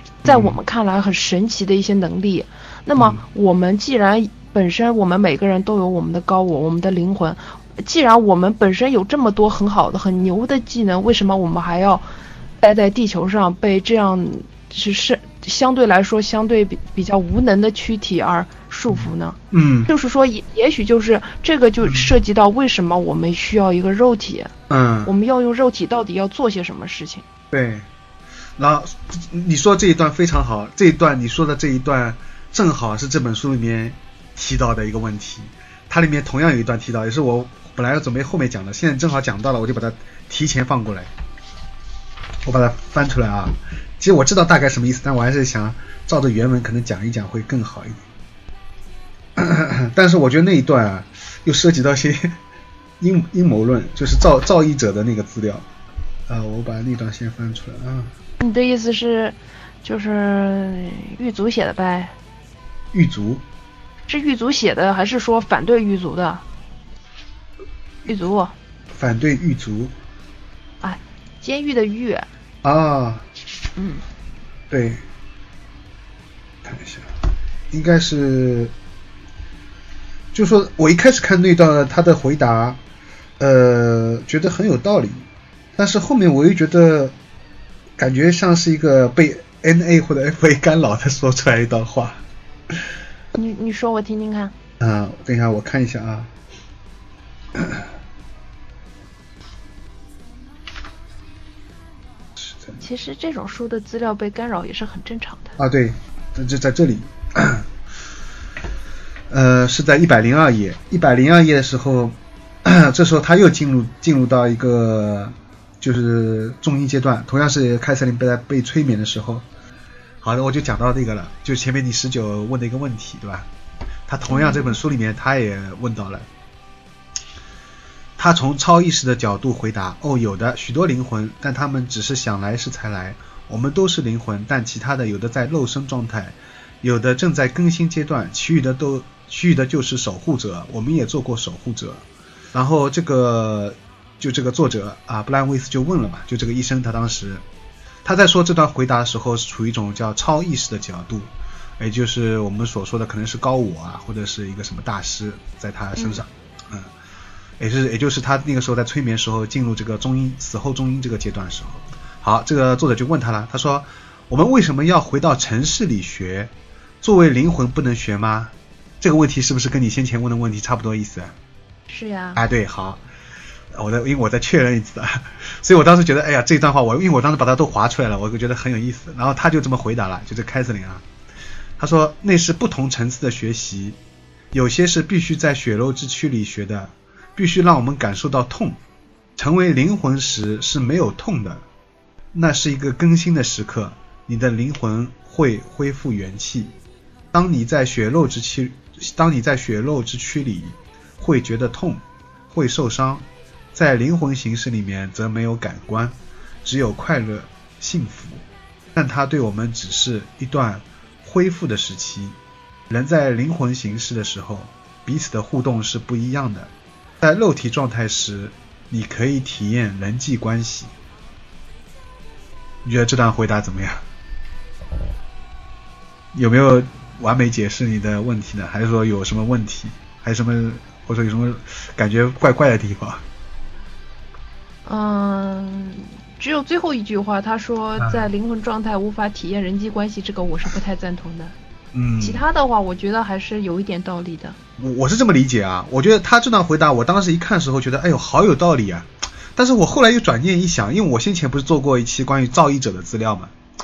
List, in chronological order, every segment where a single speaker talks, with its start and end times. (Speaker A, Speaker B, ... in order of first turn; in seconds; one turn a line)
Speaker A: 0.2-12.0
Speaker B: 0.2-0.6
Speaker B: 3.0-3.2
Speaker A: 12.6-24.5
Speaker B: 19.5-19.9
Speaker B: 24.7-25.1
Speaker A: 25.0-27.2
Speaker B: 27.5-27.9
Speaker B: 28.6-41.1
Speaker B: 42.4-48.0
Speaker B: 49.3-52.4
Speaker B: 53.0-55.6
Speaker B: 56.3-58.1
Speaker A: 58.4-62.1
Speaker B: 62.9-63.4
Speaker A: 64.1-66.4
Speaker A: 68.0-68.5
Speaker B: 68.9-69.9
Speaker A: 70.8-72.3
Speaker B: 72.6-73.2
Speaker A: 73.8-74.0
Speaker B: 74.7-75.0
Speaker B: 76.6-77.1
Speaker B: 77.7-78.7
Speaker B: 80.3-82.8
Speaker B: 83.4-87.1
Speaker B: 88.0-92.2
Speaker A: 93.3-94.5
Speaker B: 94.8-96.3
Speaker B: 97.5-97.9
Speaker B: 102.4-102.8
Speaker A: 102.8-105.5
Speaker B: 105.6-107.7
Speaker B: 109.3-119.4
Speaker B: 120.2-123.5
Speaker B: 124.1-126.3
Speaker A: 124.3-124.7
Speaker B: 128.2-142.0
Speaker B: 142.5-147.4
Speaker B: 148.0-156.9
Speaker A: 156.0-156.2
Speaker B: 157.6-166.5
Speaker B: 167.0-171.3
Speaker A: 171.9-172.4
Speaker B: 172.3-173.0
Speaker B: 173.7-181.0
Speaker B: 181.8-184.0
Speaker B: 184.5-188.8
Speaker B: 189.4-191.6
Speaker B: 192.3-196.7
Speaker B: 197.3-202.0
Speaker B: 202.5-208.4
Speaker B: 208.9-212.3
Speaker B: 212.9-220.9
Speaker B: 222.8-224.0
Speaker B: 226.3-233.2
Speaker A: 234.8-241.5
Speaker B: 238.0-238.3
Speaker B: 241.9-242.4
Speaker A: 242.2-244.6
Speaker B: 244.8-253.5